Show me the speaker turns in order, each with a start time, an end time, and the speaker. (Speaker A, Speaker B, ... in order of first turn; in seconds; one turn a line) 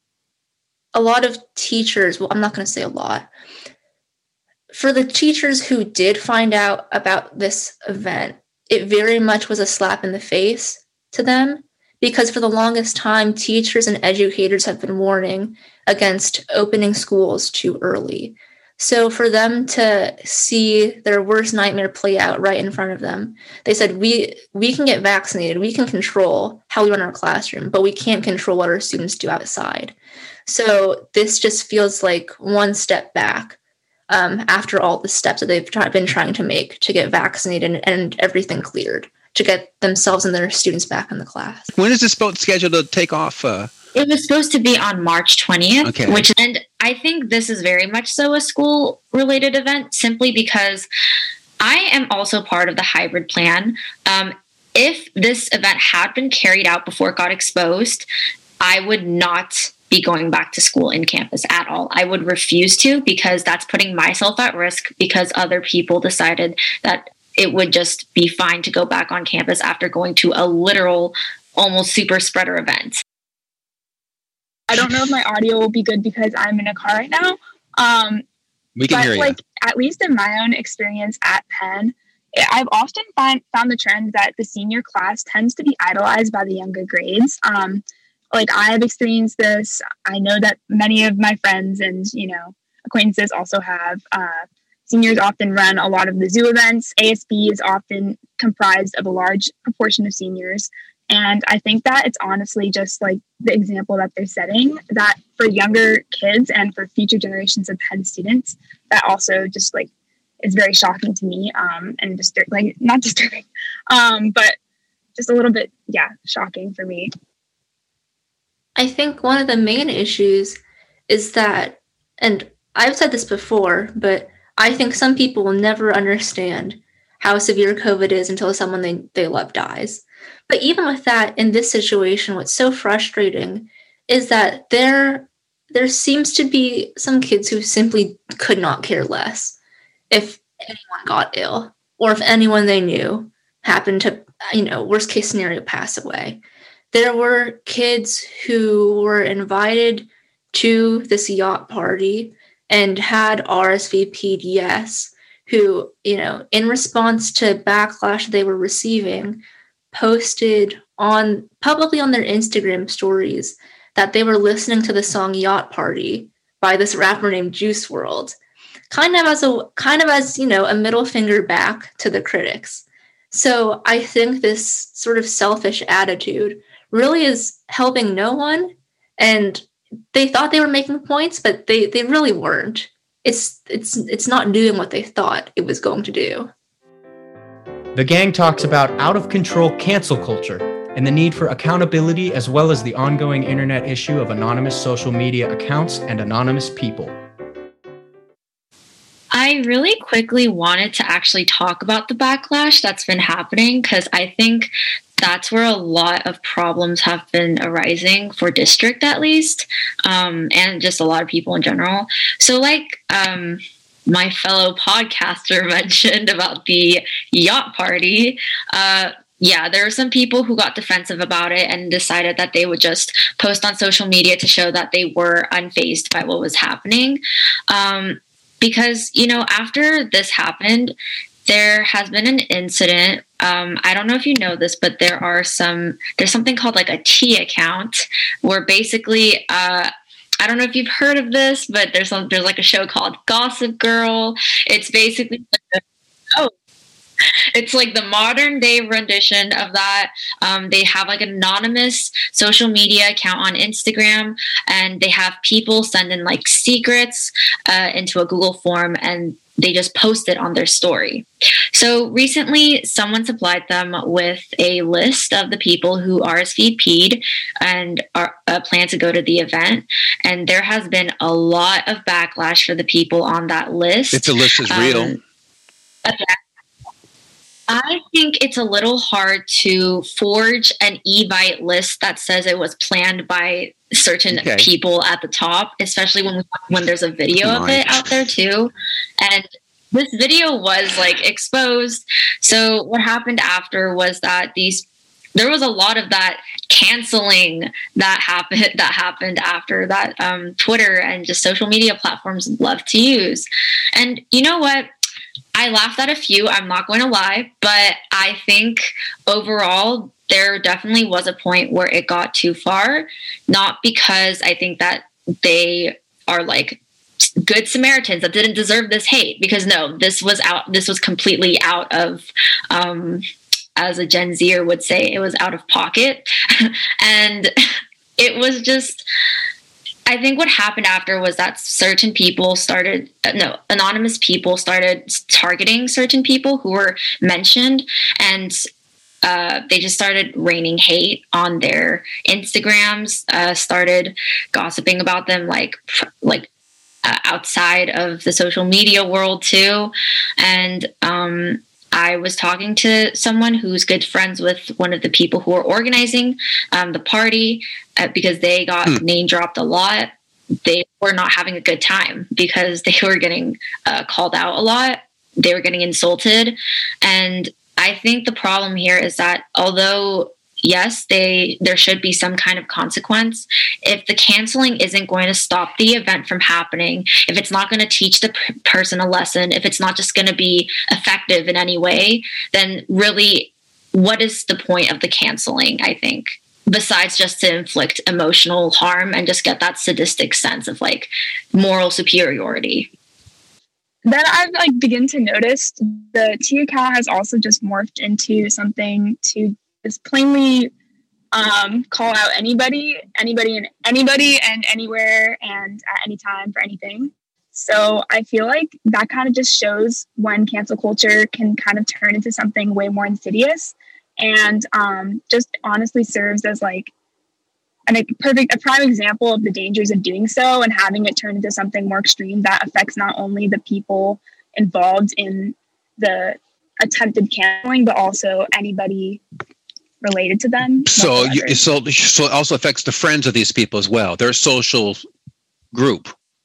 Speaker A: 0.9-3.3
Speaker A: 4.7-29.9
Speaker A: 30.5-33.6
Speaker A: 34.1-41.7
Speaker B: 41.7-43.7
Speaker C: 43.9-50.9
Speaker B: 45.8-46.3
Speaker C: 51.6-58.1
Speaker C: 58.6-73.0
Speaker D: 74.7-78.2
Speaker B: 78.8-79.4
Speaker D: 78.9-109.9
Speaker D: 110.4-114.5
Speaker D: 115.1-117.1
Speaker A: 118.8-139.6
Speaker A: 140.1-146.4
Speaker A: 146.9-159.4
Speaker A: 159.9-168.3
Speaker A: 168.9-186.5
Speaker E: 187.9-197.2
Speaker C: 199.3-230.9
Speaker C: 231.4-245.8
Speaker C: 247.5-275.2
Speaker B: 274.1-275.2
Speaker C: 276.0-276.4
Speaker C: 277.7-304.9
Speaker B: 284.3-284.7
Speaker B: 287.4-288.1
Speaker C: 305.6-316.8
Speaker C: 317.4-323.2
Speaker C: 323.8-327.5
Speaker C: 328.2-329.0
Speaker C: 330.1-338.6
Speaker C: 339.2-346.5
Speaker C: 347.0-360.1
Speaker C: 360.6-392.9
Speaker D: 394.0-400.7
Speaker D: 401.3-416.9
Speaker D: 417.9-429.2
Speaker D: 430.0-431.6
Speaker B: 430.9-435.0
Speaker B: 435.7-436.1